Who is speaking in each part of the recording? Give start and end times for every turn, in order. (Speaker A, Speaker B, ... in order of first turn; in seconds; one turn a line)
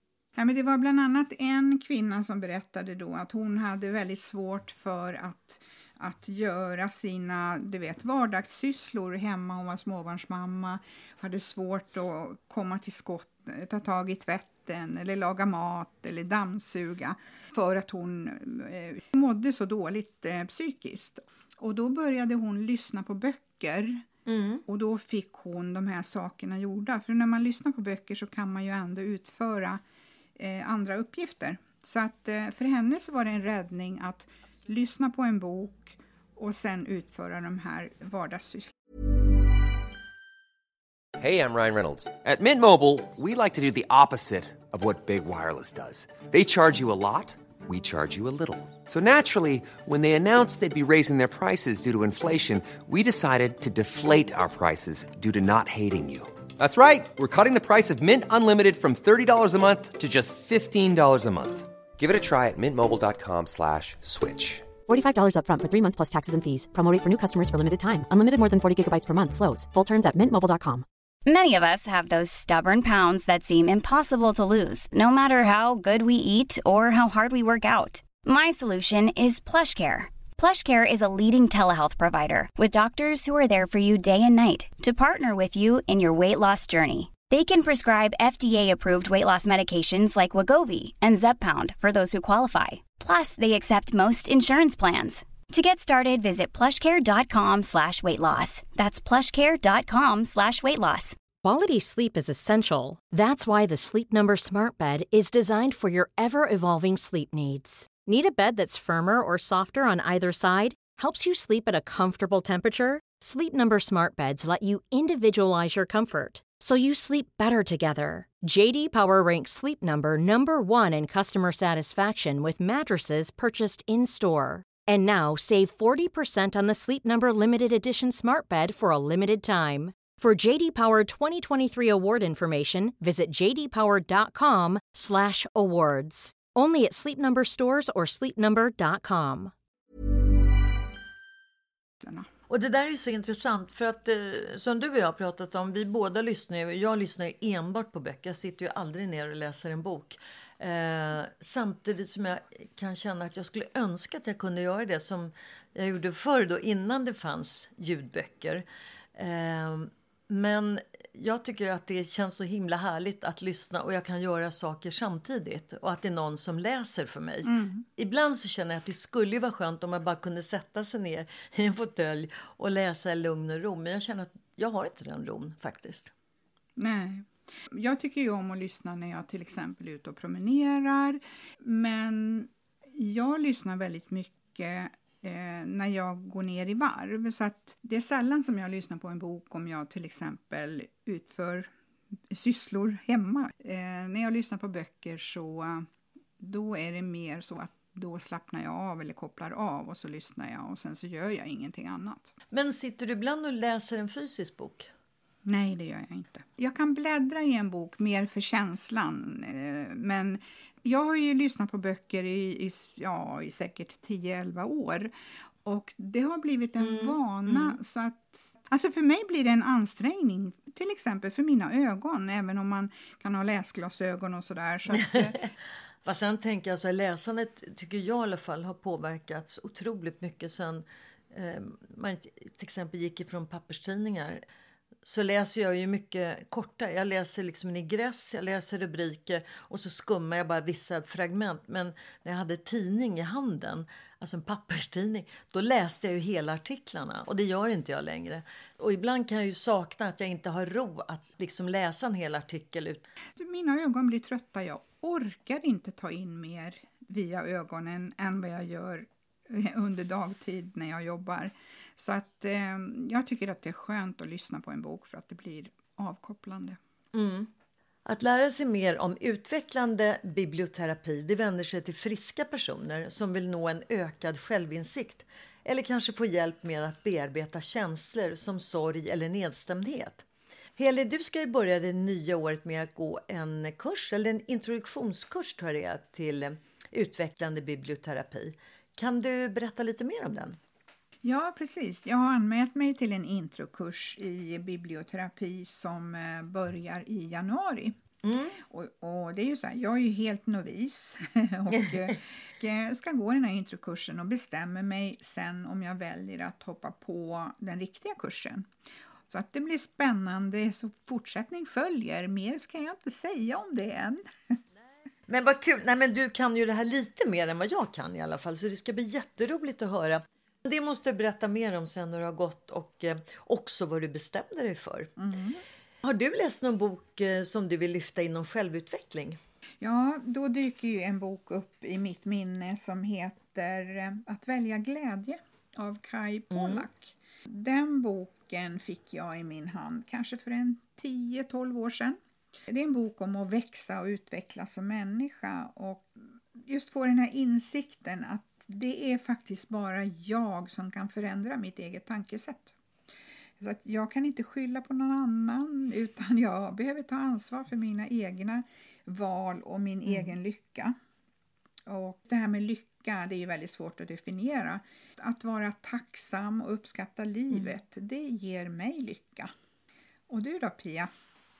Speaker A: 0.3-24.0
Speaker B: 24.3-24.6
Speaker A: 24.7-29.8
Speaker A: 30.4-38.7
Speaker C: 41.2-64.7
Speaker D: 64.8-70.8
Speaker E: 71.3-101.2
Speaker F: 101.4-139.5
Speaker A: 142.0-142.3
Speaker B: 142.5-158.6
Speaker B: 159.2-176.1
Speaker A: 167.4-167.8
Speaker A: 176.8-191.7
Speaker A: 192.3-195.8
Speaker A: 196.4-202.3
Speaker B: 202.5-204.9
Speaker A: 205.4-215.1
Speaker A: 215.6-225.5
Speaker B: 216.8-217.8
Speaker B: 224.9-225.3
Speaker B: 226.0-234.4
Speaker B: 235.0-253.0
Speaker A: 253.4-266.8
Speaker B: 267.1-267.5
Speaker B: 268.1-280.2
Speaker B: 280.8-290.6
Speaker A: 291.2-297.9
Speaker B: 298.2-298.6
Speaker A: 298.7-308.7
Speaker A: 309.3-314.6
Speaker B: 315.3-325.1
Speaker A: 325.2-325.6
Speaker B: 326.0-329.4
Speaker A: 329.8-342.2
Speaker B: 336.6-336.8
Speaker A: 342.7-352.8
Speaker A: 353.6-360.9
Speaker B: 360.1-360.3
Speaker A: 361.9-369.5
Speaker A: 370.3-371.1